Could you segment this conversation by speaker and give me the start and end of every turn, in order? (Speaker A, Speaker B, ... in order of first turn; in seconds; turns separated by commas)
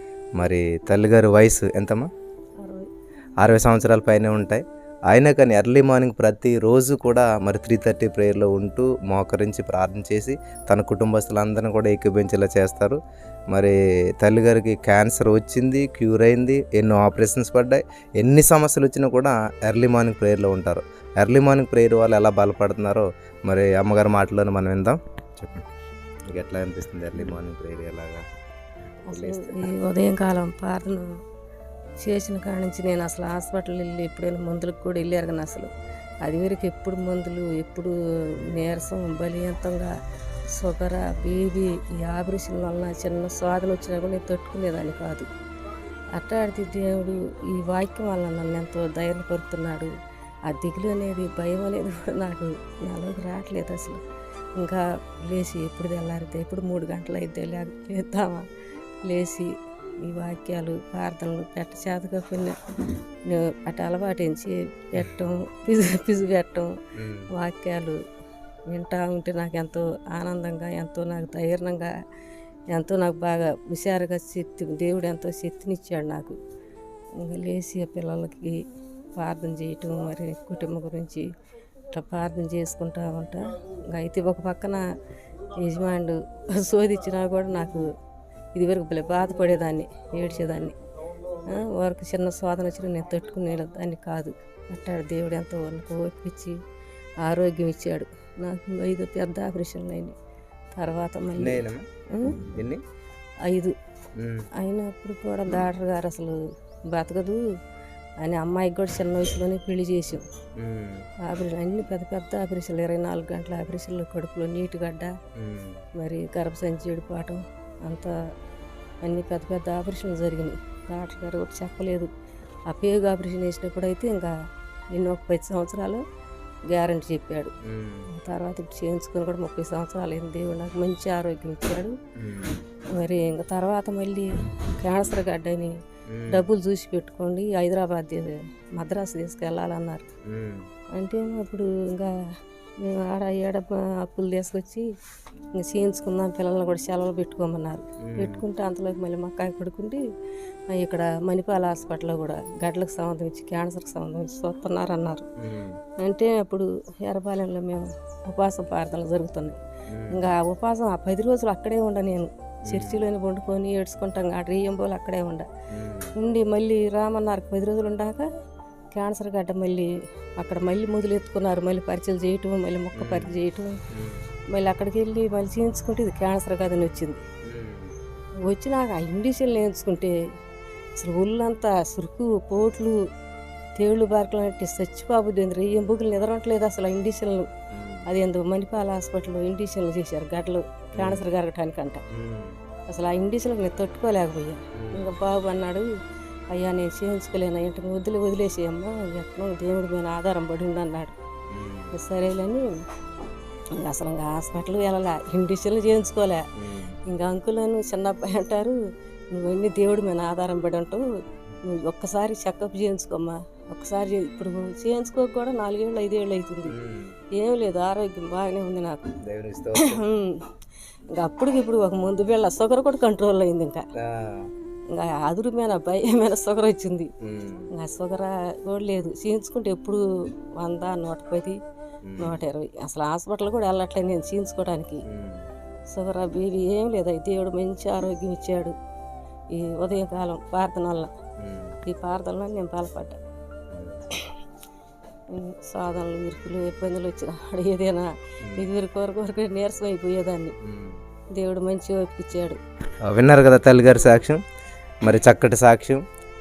Speaker A: 0.4-2.1, Speaker B: 2.6-2.9, Speaker A: 3.4-13.0, Speaker A: 13.5-25.7, Speaker A: 26.3-28.2, Speaker A: 29.1-29.7, Speaker B: 29.1-31.1, Speaker B: 32.0-35.7, Speaker B: 36.2-37.9, Speaker B: 38.5-39.9, Speaker B: 40.5-45.3, Speaker B: 46.1-49.9, Speaker B: 50.5-54.0, Speaker B: 54.6-58.4, Speaker B: 59.1-59.5, Speaker B: 60.0-62.5, Speaker B: 63.3-66.7, Speaker A: 67.0-67.3, Speaker B: 67.3-68.0, Speaker B: 68.7-71.9, Speaker B: 72.7-76.4, Speaker B: 77.2-78.6, Speaker B: 79.2-81.2, Speaker B: 81.9-84.8, Speaker B: 85.6-87.8, Speaker B: 88.5-90.8, Speaker B: 91.5-96.6, Speaker B: 97.2-100.1, Speaker B: 100.8-101.6, Speaker A: 101.4-101.8, Speaker B: 102.1-102.4, Speaker A: 102.4-102.8, Speaker B: 103.5-103.7, Speaker A: 104.2-104.5, Speaker B: 104.6-106.4, Speaker B: 106.9-107.4, Speaker B: 108.2-110.2, Speaker A: 110.6-111.1, Speaker B: 111.2-115.1, Speaker A: 115.4-115.8, Speaker B: 116.0-118.1, Speaker B: 119.0-122.1, Speaker B: 122.7-124.3, Speaker B: 124.9-126.0, Speaker B: 126.7-127.5, Speaker A: 127.6-128.1, Speaker B: 128.1-131.9, Speaker A: 132.2-132.6, Speaker B: 133.0-134.3, Speaker B: 134.8-135.8, Speaker A: 136.1-136.4, Speaker B: 136.3-140.1, Speaker A: 140.3-140.7, Speaker B: 141.0-142.1, Speaker B: 142.8-144.8, Speaker B: 145.6-150.0, Speaker A: 148.0-148.4, Speaker B: 150.7-155.2, Speaker A: 155.4-155.8, Speaker B: 156.0-159.6, Speaker A: 159.9-160.3, Speaker B: 160.1-165.5, Speaker A: 162.7-163.0, Speaker A: 165.7-166.1, Speaker B: 166.2-168.2, Speaker B: 168.9-173.7, Speaker A: 172.9-173.3, Speaker A: 173.9-174.2, Speaker B: 174.5-177.2, Speaker A: 177.4-177.9, Speaker B: 178.4-180.1, Speaker B: 181.0-182.9, Speaker B: 183.8-187.5, Speaker A: 187.7-188.1, Speaker B: 188.1-192.0, Speaker A: 191.0-191.2, Speaker A: 192.1-192.6, Speaker B: 192.9-195.8, Speaker A: 194.8-195.1, Speaker B: 196.5-201.2, Speaker A: 201.5-201.9, Speaker B: 201.9-202.7, Speaker B: 203.8-206.4, Speaker A: 206.6-207.0, Speaker B: 207.1-208.8, Speaker B: 209.3-211.0, Speaker B: 211.6-216.7, Speaker A: 216.7-217.2, Speaker B: 217.4-219.1, Speaker A: 219.2-220.0, Speaker B: 219.8-220.4, Speaker B: 221.1-223.8, Speaker A: 224.0-224.5, Speaker B: 224.9-227.1, Speaker A: 227.2-227.7, Speaker B: 227.7-230.0, Speaker B: 230.6-231.6, Speaker A: 232.1-232.4, Speaker B: 232.2-235.0, Speaker A: 235.1-235.5, Speaker B: 235.9-238.7, Speaker B: 239.5-241.1, Speaker A: 241.4-241.8, Speaker B: 241.8-243.2, Speaker A: 243.7-244.0, Speaker B: 245.3-250.6, Speaker A: 248.4-248.7, Speaker A: 250.6-251.0, Speaker B: 251.3-252.6, Speaker A: 253.1-254.4, Speaker A: 255.0-256.0